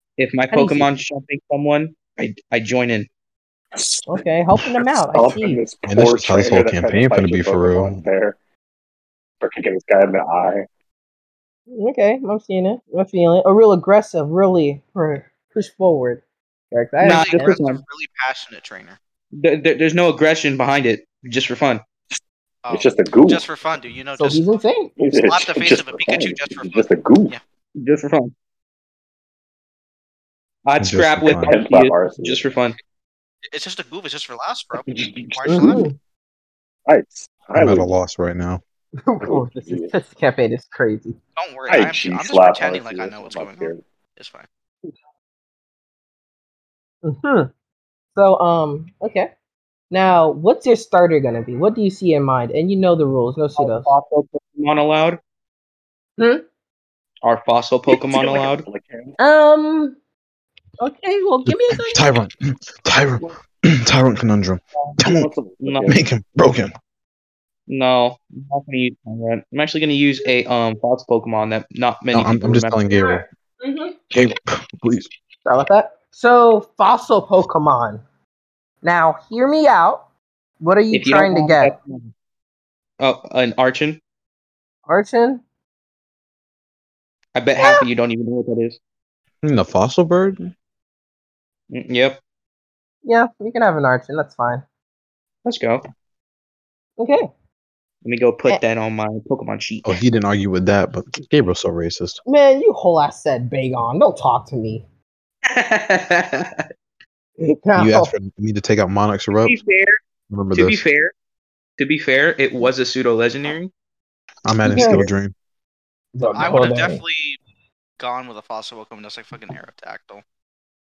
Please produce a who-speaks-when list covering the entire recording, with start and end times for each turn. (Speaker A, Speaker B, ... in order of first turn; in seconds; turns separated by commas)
Speaker A: 0.2-3.1, Speaker B: 0.5-0.9, Speaker C: 3.7-4.2, Speaker B: 4.1-5.6, Speaker C: 5.1-8.4, Speaker D: 5.9-8.0, Speaker C: 9.4-10.7, Speaker B: 11.7-17.6, Speaker A: 17.0-17.8, Speaker E: 17.0-19.0, Speaker A: 19.4-21.8, Speaker E: 22.6-24.4, Speaker C: 22.7-23.4, Speaker B: 24.2-24.9, Speaker C: 25.0-27.3, Speaker E: 25.1-27.4, Speaker A: 27.8-28.3, Speaker A: 30.6-32.8, Speaker D: 30.8-31.6, Speaker C: 31.4-32.5, Speaker E: 33.5-35.9, Speaker C: 34.8-35.9, Speaker B: 35.5-36.0, Speaker C: 36.9-37.9, Speaker D: 37.5-38.6, Speaker B: 39.0-41.2, Speaker C: 39.2-39.9, Speaker E: 41.4-44.5, Speaker C: 41.7-43.8, Speaker B: 47.0-47.5, Speaker B: 48.1-49.3, Speaker B: 49.9-53.9, Speaker A: 53.6-55.2, Speaker B: 56.2-56.4, Speaker A: 57.2-58.6, Speaker C: 57.9-59.2, Speaker B: 59.2-60.0, Speaker B: 60.8-62.2, Speaker D: 61.5-65.3, Speaker C: 65.0-66.0, Speaker A: 65.6-65.9, Speaker D: 65.8-66.7, Speaker A: 67.7-72.8, Speaker D: 72.1-73.2, Speaker B: 72.9-74.0, Speaker D: 74.1-75.1, Speaker B: 75.5-78.0, Speaker B: 78.8-80.0, Speaker B: 80.6-81.7, Speaker A: 80.9-82.1, Speaker A: 83.0-84.0, Speaker B: 84.9-85.4, Speaker A: 87.3-88.8, Speaker B: 87.6-87.8, Speaker D: 89.4-90.5, Speaker A: 91.7-92.2, Speaker B: 93.0-94.6, Speaker A: 95.4-95.8, Speaker B: 97.0-97.3, Speaker A: 98.0-100.0, Speaker D: 99.8-102.2, Speaker B: 102.2-104.8, Speaker A: 105.5-106.6, Speaker B: 107.4-108.1, Speaker D: 107.7-109.6, Speaker A: 109.4-110.0, Speaker D: 110.3-110.8, Speaker A: 110.5-111.1, Speaker A: 111.8-113.7, Speaker D: 114.4-115.3, Speaker B: 114.7-115.1, Speaker A: 114.7-115.1, Speaker B: 116.1-117.0, Speaker E: 116.3-117.4, Speaker E: 118.0-120.2